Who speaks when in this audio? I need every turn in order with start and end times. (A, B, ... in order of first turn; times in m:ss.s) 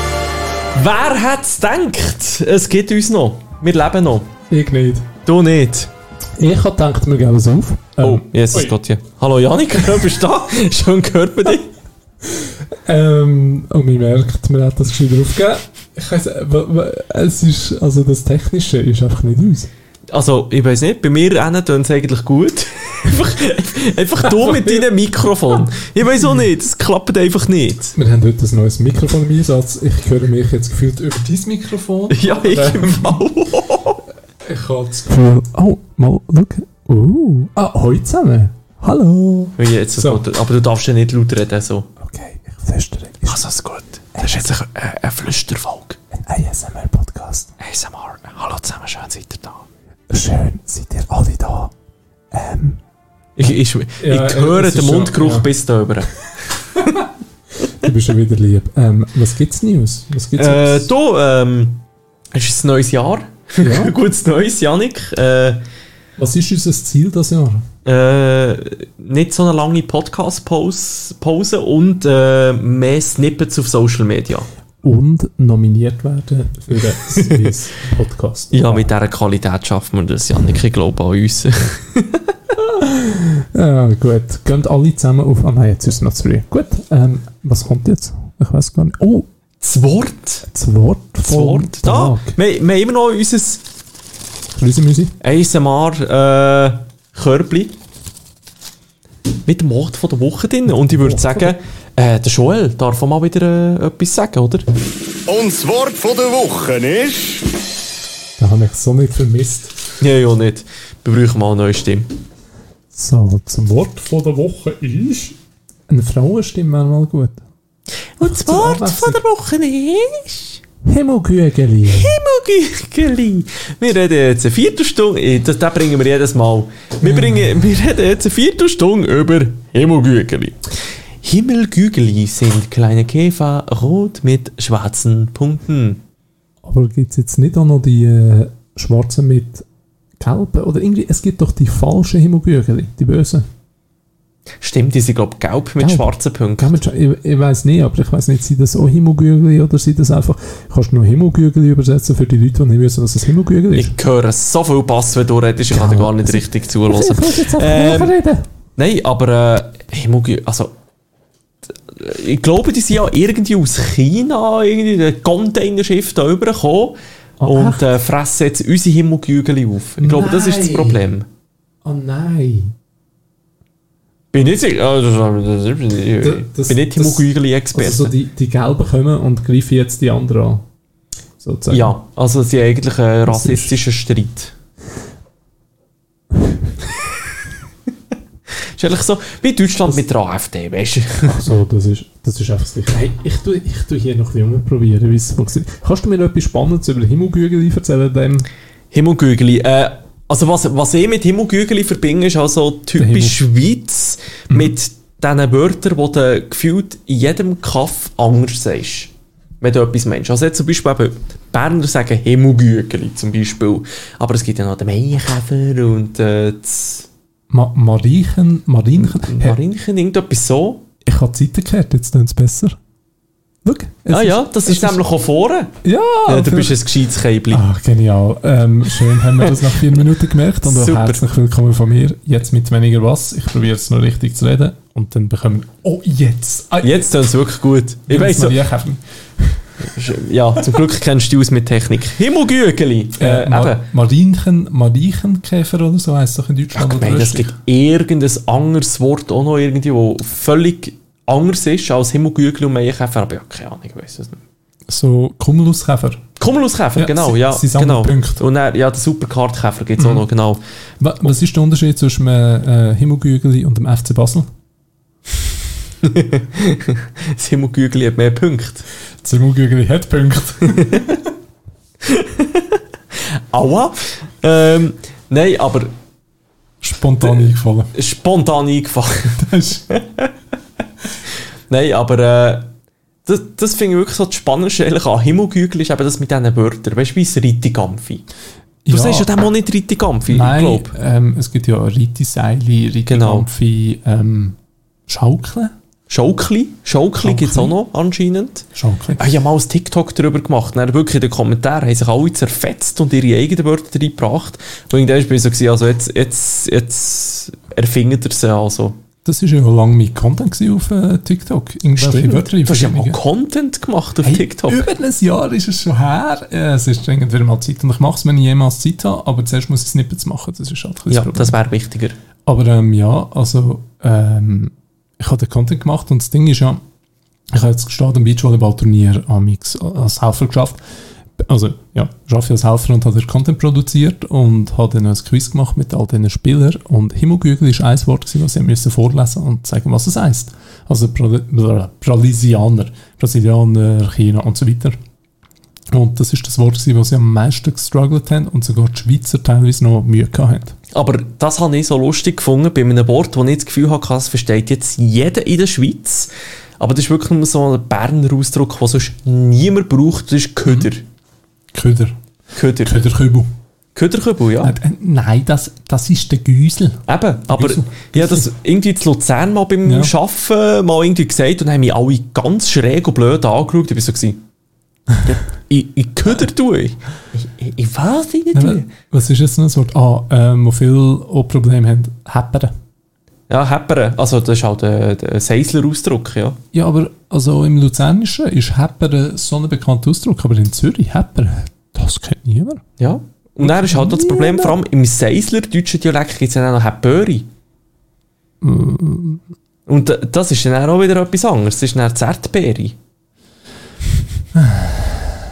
0:00.7-0:04.3 A
0:04.5-0:05.0 B
0:05.2-0:05.9 A
0:06.4-0:08.7 B
0:08.0-0:11.7 A
0:12.8-0:19.7 B
0:20.1-0:27.9 A
0:24.3-0:24.8 B
0:26.0-0:26.5 B
0:27.9-0:33.2 B
0:32.1-0:34.0 A
0:34.4-0:40.2 B
0:39.6-0:41.9 A
0:42.0-0:43.4 B
0:43.2-0:46.0 A
0:44.2-0:44.5 B
0:46.2-0:47.5 B
0:47.6-0:49.6 A
0:50.1-0:51.7 B
0:52.3-0:52.8 B
0:53.4-0:56.1 A
0:53.4-0:55.5 B
0:57.7-1:00.9 B
1:00.4-1:01.8 A
1:02.3-1:05.6 A
1:03.6-1:03.9 B
1:06.2-1:07.6 B
1:07.8-1:14.5 A
1:14.8-1:18.9 B
1:17.1-1:17.5 A
1:18.5-1:22.3 A
1:22.6-1:29.3 B
1:29.6-1:30.4 A
1:30.5-1:32.4 B
1:31.2-1:33.6 A
1:34.5-1:35.1 B
1:35.2-1:37.7 A
1:39.4-1:44.6 A
1:40.7-1:41.5 B
1:45.3-1:47.5 C
1:48.4-1:49.7 B
1:50.0-1:52.1 A
1:52.9-1:55.4 B
1:55.9-1:57.4 B
1:58.2-2:00.6 A
1:58.2-1:59.2 B
2:00.8-2:02.2 B
2:01.8-2:10.7 A
2:07.0-2:07.7 B
2:11.2-2:16.0 A
2:16.6-2:19.6 B
2:20.2-2:23.4 B
2:24.6-2:26.8 A
2:25.8-2:33.9 B
2:33.7-2:38.2 A
2:35.7-2:38.4 B
2:38.8-2:40.7 A
2:41.9-2:51.2 A
2:47.4-2:47.9 B
2:50.0-2:51.0 B
2:51.8-2:52.7 B
2:54.3-2:58.1 A
2:56.2-3:00.6 B
3:01.4-3:01.9 B
3:01.7-3:04.5 A
3:03.3-3:03.8 B
3:08.7-3:11.4 A
3:11.2-3:18.5 B
3:18.9-3:37.0 A
3:23.0-3:23.4 B
3:24.5-3:24.8 B
3:37.5-3:39.6 B
3:39.0-3:40.8 A
3:41.0-3:42.8 B
3:43.6-3:45.0 B
3:44.1-3:47.6 A
3:45.8-3:46.8 B
3:47.5-3:57.1 B
3:49.1-3:50.0 A
3:50.6-3:51.2 A
3:56.8-3:58.7 A
3:58.1-3:59.8 B
3:59.8-4:03.8 A
4:03.2-4:07.5 B
4:06.7-4:14.4 A
4:14.9-4:16.2 B
4:16.4-4:20.6 A
4:16.9-4:18.4 B
4:20.0-4:20.2 B
4:21.0-4:24.4 B
4:26.0-4:28.8 A
4:29.2-4:31.2 B
4:30.9-4:31.2 A
4:32.0-4:32.8 A
4:33.5-4:35.9 A
4:36.8-4:37.9 B
4:37.2-4:40.3 A
4:39.4-4:39.8 B
4:41.7-4:42.7 A
4:43.2-4:48.2 A
4:48.8-4:49.3 B
4:48.9-4:50.9 A
4:50.3-4:54.6 B
4:53.1-4:53.5 A
4:55.1-4:55.7 B
4:56.1-5:09.0 A
4:57.2-4:57.8 B
4:58.7-4:59.2 B
5:09.2-5:13.2 B
5:12.0-5:14.8 A
5:14.2-5:21.6 B
5:21.1-5:22.1 A
5:22.4-5:26.8 B
5:27.5-5:30.8 B
5:31.4-5:44.9 B
5:45.9-5:50.7 B
5:50.9-6:01.0 A
6:01.7-6:02.2 B
6:02.5-6:03.0 A
6:02.8-6:03.5 B
6:03.9-6:04.7 A
6:04.6-6:08.5 B
6:07.1-6:14.4 A
6:09.8-6:10.1 B
6:15.2-6:18.9 A
6:18.5-6:22.7 B
6:23.5-6:26.6 A
6:26.7-6:32.8 B
6:33.0-6:37.4 A
6:33.6-6:34.8 B
6:38.6-6:39.4 B
6:39.9-6:42.9 A
6:44.6-6:45.1 B